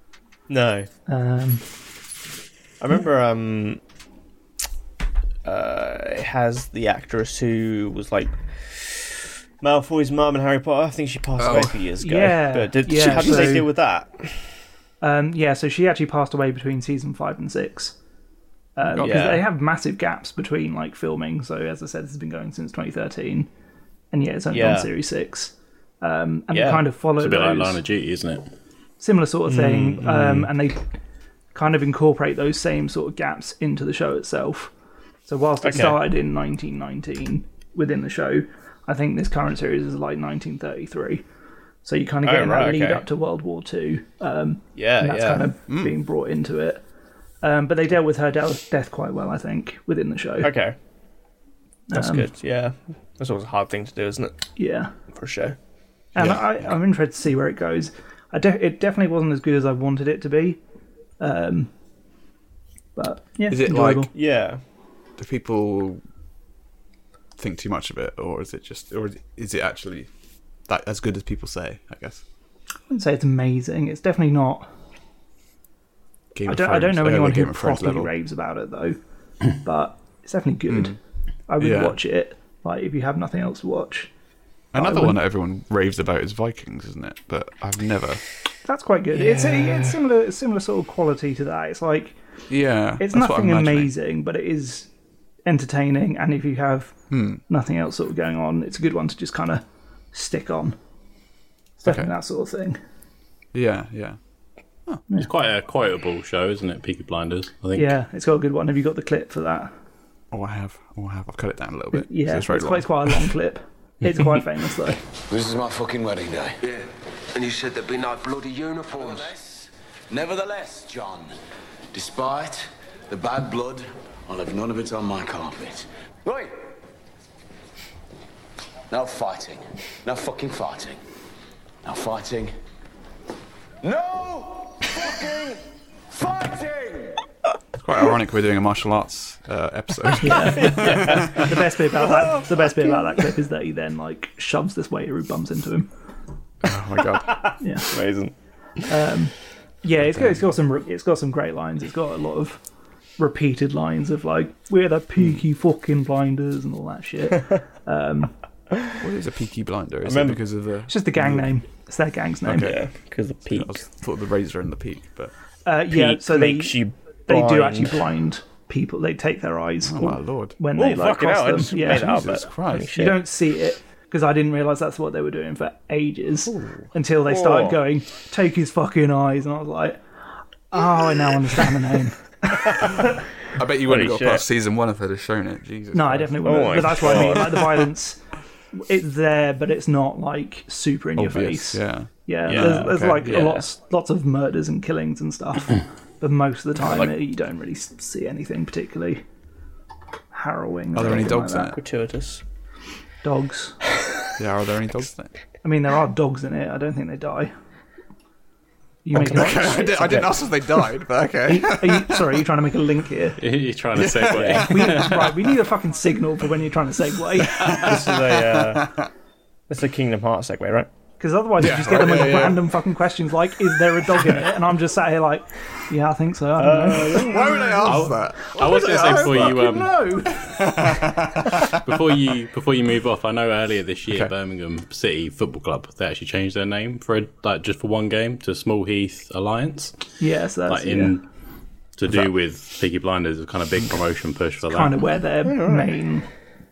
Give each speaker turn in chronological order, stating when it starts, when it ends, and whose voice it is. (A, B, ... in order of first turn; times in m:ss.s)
0:00.5-0:00.9 A
0:01.1-0:01.6 B
0:02.8-0:03.8 A
0:05.4-0:14.4 A
0:11.4-0:11.8 C
0:12.0-0:13.7 B
0:13.0-0:13.5 C
0:15.0-0:18.0 B
0:18.8-0:23.5 B
0:18.9-0:19.2 C
0:19.0-0:19.4 A
0:24.1-0:27.8 B
0:24.5-0:24.9 A
0:26.5-0:26.8 A
0:27.2-0:28.5 D
0:29.0-0:30.9 B
0:29.5-0:30.5 A
0:31.5-0:34.7 B
0:35.3-0:41.2 B
0:35.6-0:36.0 A
0:41.8-0:46.8 B
0:42.2-0:43.0 A
0:44.8-0:45.5 A
0:45.7-0:46.0 C
0:47.4-0:50.5 B
0:50.4-0:50.8 A
0:51.9-0:52.3 B
0:51.9-0:54.4 A
0:54.6-0:54.9 B
0:55.1-0:55.6 A
0:56.1-1:00.6 B
1:01.2-1:01.7 B
1:03.0-1:04.1 B
1:03.5-1:04.1 C
1:04.1-1:04.6 A
1:05.2-1:06.0 C
1:07.4-1:10.1 C
1:10.7-1:12.2 C
1:12.9-1:14.7 B
1:16.3-1:18.1 C
1:16.5-1:19.0 B
1:19.5-1:21.0 B
1:20.7-1:21.0 C
1:21.5-1:24.1 B
1:21.6-1:22.0 C
1:24.7-1:28.2 C
1:24.7-1:25.2 B
1:28.6-1:32.2 B
1:29.1-1:30.0 A
1:32.5-1:33.9 C
1:33.0-1:34.9 B
1:35.4-1:36.9 B
1:37.1-1:37.4 C
1:37.5-1:40.8 B
1:41.8-1:42.8 B
1:41.8-1:42.1 C
1:43.5-1:44.2 C
1:45.2-1:47.9 D
1:47.7-1:49.7 B
1:50.3-1:53.3 C
1:51.9-1:55.0 B
1:55.3-1:56.8 E
1:57.3-1:59.3 F
1:58.8-2:01.3 E
2:01.9-2:06.5 E
2:08.9-2:11.0 E
2:11.8-2:12.5 E
2:13.8-2:15.6 E
2:16.1-2:17.2 E
2:17.8-2:21.5 C
2:20.2-2:25.9 B
2:20.4-2:23.0 A
2:26.6-2:27.4 C
2:27.3-2:28.3 A
2:27.6-2:27.9 B
2:28.9-2:32.6 B
2:30.0-2:30.4 C
2:33.2-2:38.3 B
2:39.0-2:41.5 C
2:40.0-2:40.4 A
2:40.9-2:42.7 B
2:42.4-2:42.9 C
2:42.5-2:43.8 A
2:43.4-2:45.3 C
2:45.6-2:52.4 B
2:45.9-2:48.0 A
2:49.8-2:50.6 C
2:50.7-2:53.2 A
2:51.8-2:53.1 C
2:52.9-3:00.0 B
2:56.5-2:56.8 C
2:57.2-2:57.8 A
3:00.7-3:02.9 B
3:02.6-3:03.1 A
3:03.5-3:06.9 C
3:03.8-3:04.4 A
3:05.9-3:08.2 B
3:06.4-3:07.9 A
3:08.7-3:19.2 B
3:11.2-3:13.5 C
3:16.8-3:17.1 A
3:20.3-3:21.7 B
3:20.9-3:21.8 C
3:21.6-3:22.4 A
3:23.2-3:23.8 B
3:24.4-3:25.3 C
3:25.6-3:27.5 B
3:29.0-3:30.8 B
3:29.1-3:32.4 C
3:31.4-3:33.4 B
3:33.4-3:35.3 D
3:34.0-3:35.3 C
3:34.3-3:34.7 A
3:34.6-3:37.7 B
3:37.5-3:39.1 C
3:37.7-3:38.9 A
3:39.7-3:40.9 A
3:41.2-3:50.4 B
3:41.6-3:42.7 C
3:46.6-3:47.8 A
3:47.1-3:51.7 C
3:47.9-3:49.9 D
3:51.7-4:00.1 D
4:00.2-4:01.1 B
4:00.7-4:01.2 D
4:02.0-4:05.1 D
4:04.6-4:06.3 B
4:05.4-4:06.0 A